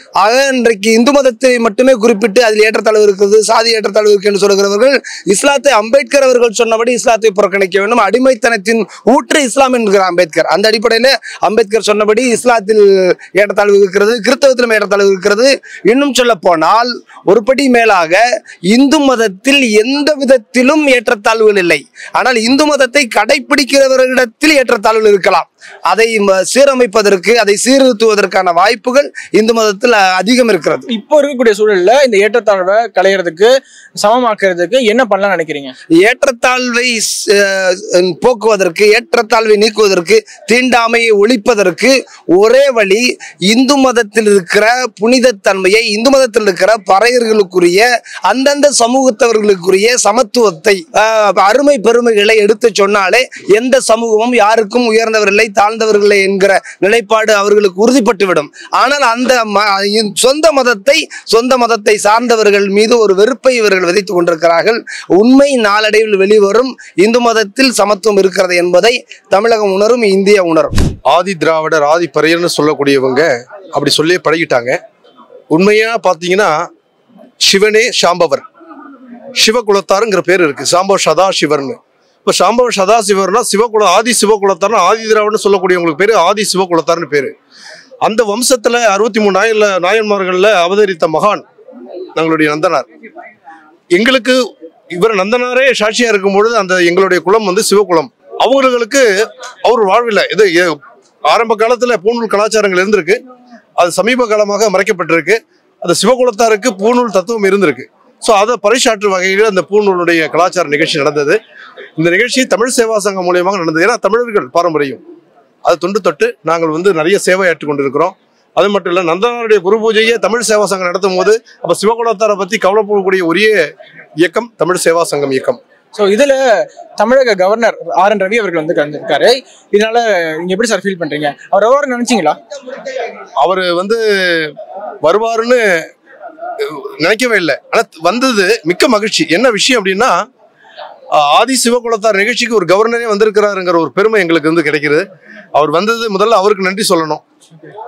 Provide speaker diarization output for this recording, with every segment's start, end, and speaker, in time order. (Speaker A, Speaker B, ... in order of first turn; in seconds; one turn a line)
Speaker A: 0.2-18.2
Speaker A: 18.7-30.9
Speaker B: 30.9-35.7
Speaker A: 36.0-70.7
Speaker C: 71.1-74.8
Speaker C: 75.5-76.5
Speaker C: 77.4-78.4
Speaker C: 79.4-87.3
Speaker C: 88.0-91.4
Speaker C: 92.2-92.8
Speaker C: 93.9-94.4
Speaker C: 94.9-99.0
Speaker C: 99.6-100.8
Speaker C: 101.3-103.2
Speaker C: 103.8-111.4
Speaker C: 112.0-115.0
Speaker C: 115.6-123.6
Speaker C: 124.2-125.6
Speaker B: 125.9-126.4
Speaker B: 127.0-132.4
Speaker C: 133.4-134.5
Speaker C: 135.0-135.6
Speaker C: 136.6-140.2
Speaker C: 141.2-147.2